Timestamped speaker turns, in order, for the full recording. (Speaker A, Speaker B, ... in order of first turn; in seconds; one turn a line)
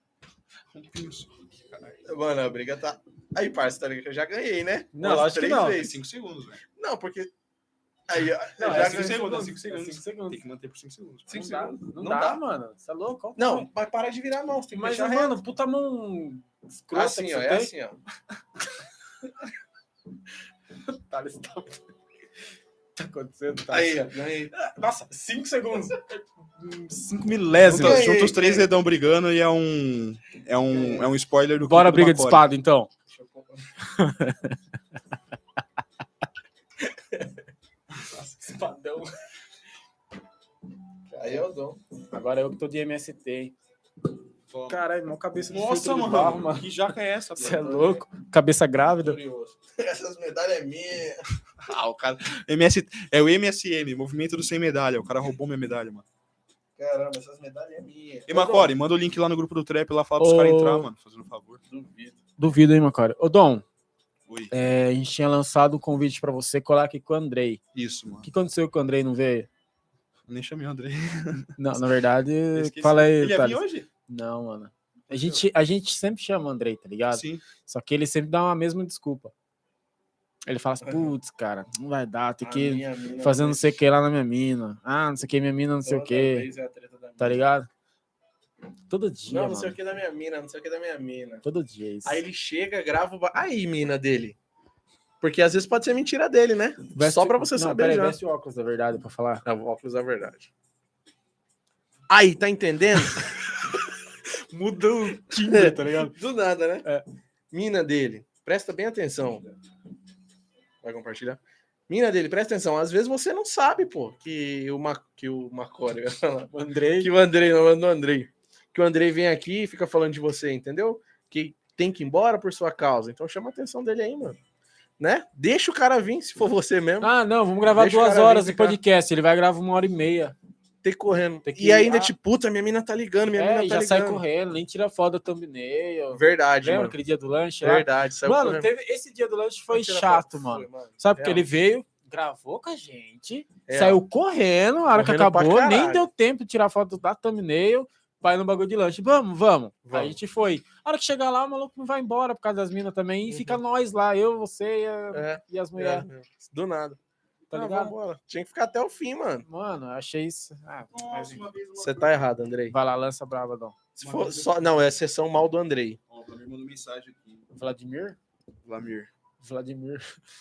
Speaker A: 0.7-2.0
Speaker B: 2.0-5.9
Speaker C: 4.9-5.8
Speaker A: 5.3-6.6
Speaker B: 6.8-7.3
Speaker B: 8.1-9.2
Speaker C: 8.6-10.4
Speaker A: 8.6-11.4
Speaker B: 11.3-12.4
Speaker C: 11.3-13.7
Speaker B: 13.3-15.4
Speaker C: 14.7-17.7
Speaker B: 16.9-18.0
Speaker C: 20.9-21.8
Speaker C: 22.9-28.1
Speaker B: 23.7-24.5
Speaker A: 27.1-32.5
Speaker B: 27.7-28.7
Speaker B: 30.8-31.1
Speaker C: 31.6-32.9
Speaker B: 33.1-33.6
Speaker C: 33.8-34.6
Speaker C: 38.1-39.1
Speaker B: 41.1-41.8
Speaker C: 42.1-43.5
Speaker A: 44.5-44.8
Speaker C: 44.7-46.7
Speaker A: 45.5-47.7
Speaker B: 47.4-48.0
Speaker C: 47.4-49.2
Speaker B: 48.8-51.3
Speaker A: 51.6-56.0
Speaker B: 56.8-58.7
Speaker A: 58.3-61.6
Speaker C: 60.2-60.9
Speaker B: 61.7-62.2
Speaker C: 62.4-63.6
Speaker A: 64.3-64.5
Speaker C: 64.5-67.6
Speaker A: 67.7-68.3
Speaker C: 68.2-69.5
Speaker A: 70.3-71.5
Speaker C: 71.6-79.3
Speaker A: 72.5-73.9
Speaker A: 75.1-75.4
Speaker A: 77.1-77.4
Speaker C: 80.5-86.5
Speaker B: 80.8-81.1
Speaker B: 82.4-83.8
Speaker B: 85.8-87.4
Speaker C: 87.2-87.7
Speaker C: 88.9-89.8
Speaker B: 89.3-91.4
Speaker C: 91.4-92.2
Speaker B: 92.0-94.3
Speaker B: 95.2-98.2
Speaker C: 96.9-99.4
Speaker B: 99.4-100.5
Speaker B: 102.1-103.4
Speaker C: 104.5-106.1
Speaker B: 105.3-106.8
Speaker B: 107.5-109.5
Speaker B: 110.8-124.4
Speaker C: 116.5-117.1
Speaker B: 125.0-127.1
Speaker C: 127.0-130.3
Speaker B: 127.7-128.8
Speaker B: 130.8-134.2
Speaker C: 131.4-132.1
Speaker C: 133.3-156.1
Speaker B: 136.1-136.9
Speaker B: 137.6-138.7
Speaker B: 139.7-141.5
Speaker B: 143.7-144.0
Speaker B: 144.9-146.1
Speaker B: 149.9-150.2
Speaker B: 153.3-153.6
Speaker B: 155.1-157.0
Speaker C: 157.5-157.9
Speaker B: 157.5-159.4
Speaker C: 159.4-161.4
Speaker A: 160.9-162.2
Speaker B: 161.8-162.7
Speaker C: 162.7-163.8
Speaker B: 163.9-166.0
Speaker A: 164.0-164.7
Speaker A: 166.1-167.4
Speaker C: 167.5-168.2
Speaker A: 168.6-169.1
Speaker C: 169.4-170.0